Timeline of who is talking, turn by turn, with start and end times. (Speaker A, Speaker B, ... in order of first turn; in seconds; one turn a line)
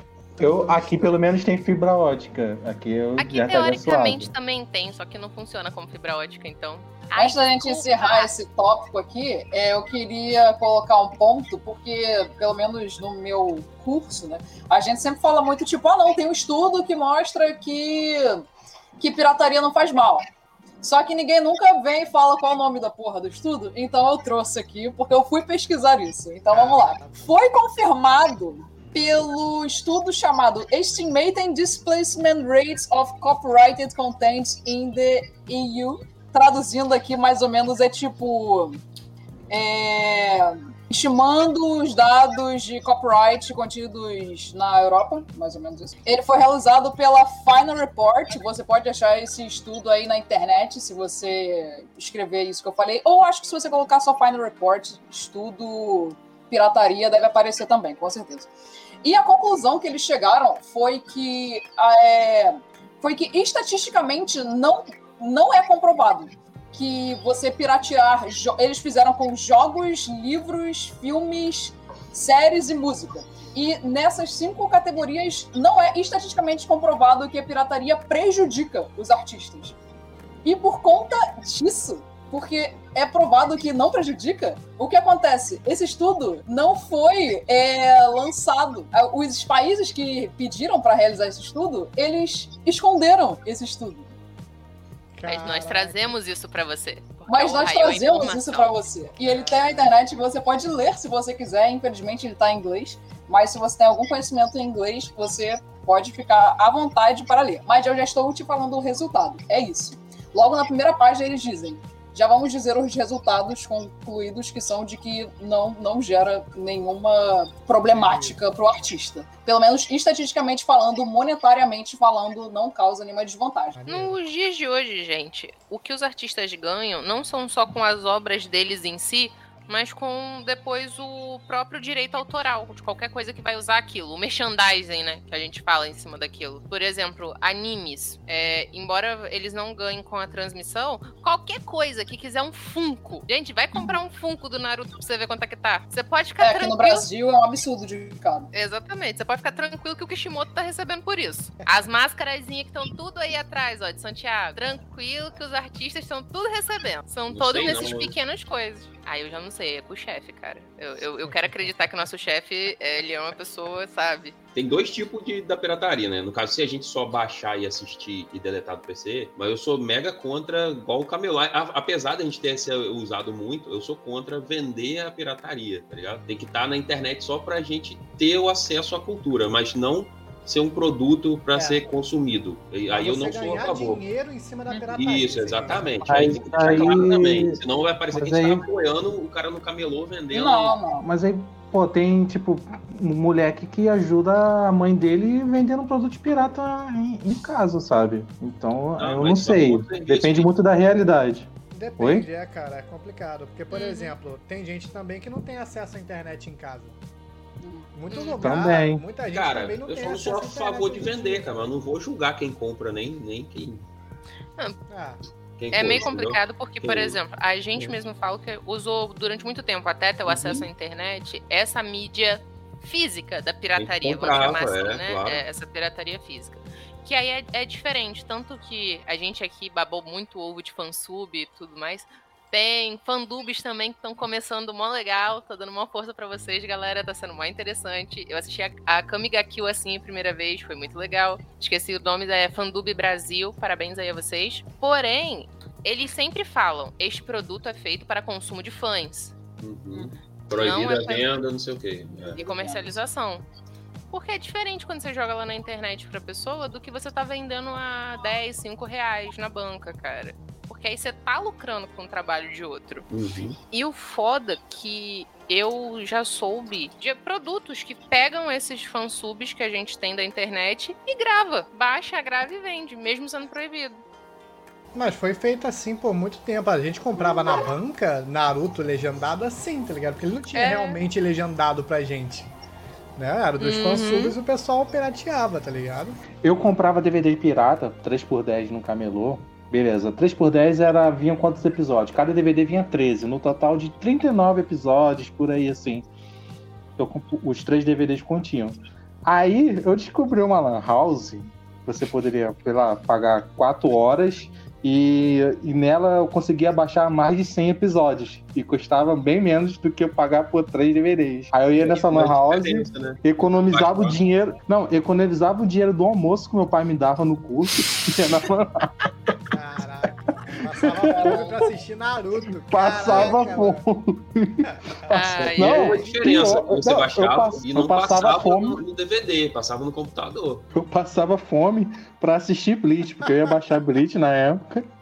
Speaker A: 0.4-4.3
Speaker B: 0.4-1.1
Speaker C: 3.2-8.3
Speaker D: 7.2-18.5
Speaker D: 19.0-20.3
Speaker D: 20.8-38.8
Speaker B: 26.5-27.3
Speaker D: 39.5-58.5
Speaker D: 59.0-79.8
Speaker D: 80.4-94.1
Speaker B: 95.2-96.1
Speaker C: 95.2-98.8
Speaker D: 97.3-123.8
Speaker B: 99.2-100.0
Speaker B: 117.9-118.4
Speaker B: 123.8-124.2
Speaker C: 123.9-147.1
Speaker D: 146.4-148.5
Speaker C: 148.5-164.3
Speaker E: 157.3-158.1
Speaker B: 161.3-161.7
Speaker E: 164.5-184.0
Speaker B: 181.5-181.8
Speaker B: 182.9-187.0
Speaker E: 184.9-190.8
Speaker A: 186.0-187.6
Speaker A: 188.1-188.6
Speaker D: 190.3-191.1
Speaker A: 191.0-201.5
Speaker E: 199.0-200.5
Speaker B: 201.7-207.0
Speaker A: 202.0-202.3
Speaker C: 203.7-204.2
Speaker D: 207.6-207.8
Speaker B: 207.9-211.5
Speaker C: 208.1-208.5
Speaker A: 208.4-209.0
Speaker E: 209.3-213.9
Speaker B: 214.9-215.2
Speaker E: 215.6-217.2
Speaker C: 215.7-249.3
Speaker E: 220.3-220.7
Speaker E: 223.8-225.4
Speaker E: 249.6-252.4
Speaker C: 250.6-251.3
Speaker D: 252.2-253.0
Speaker C: 252.4-253.4
Speaker C: 254.1-263.1
Speaker E: 263.1-263.6
Speaker C: 263.7-274.0
Speaker B: 274.9-282.5
Speaker C: 280.5-281.0
Speaker B: 283.1-286.2
Speaker C: 283.6-284.4
Speaker A: 286.4-296.1
Speaker A: 297.0-318.9
Speaker E: 311.8-314.2
Speaker B: 319.5-323.8
Speaker A: 320.6-321.6
Speaker D: 321.1-321.6
Speaker A: 322.7-328.8
Speaker B: 324.6-325.1
Speaker C: 325.1-326.0
Speaker E: 325.4-330.6
Speaker A: 330.7-334.9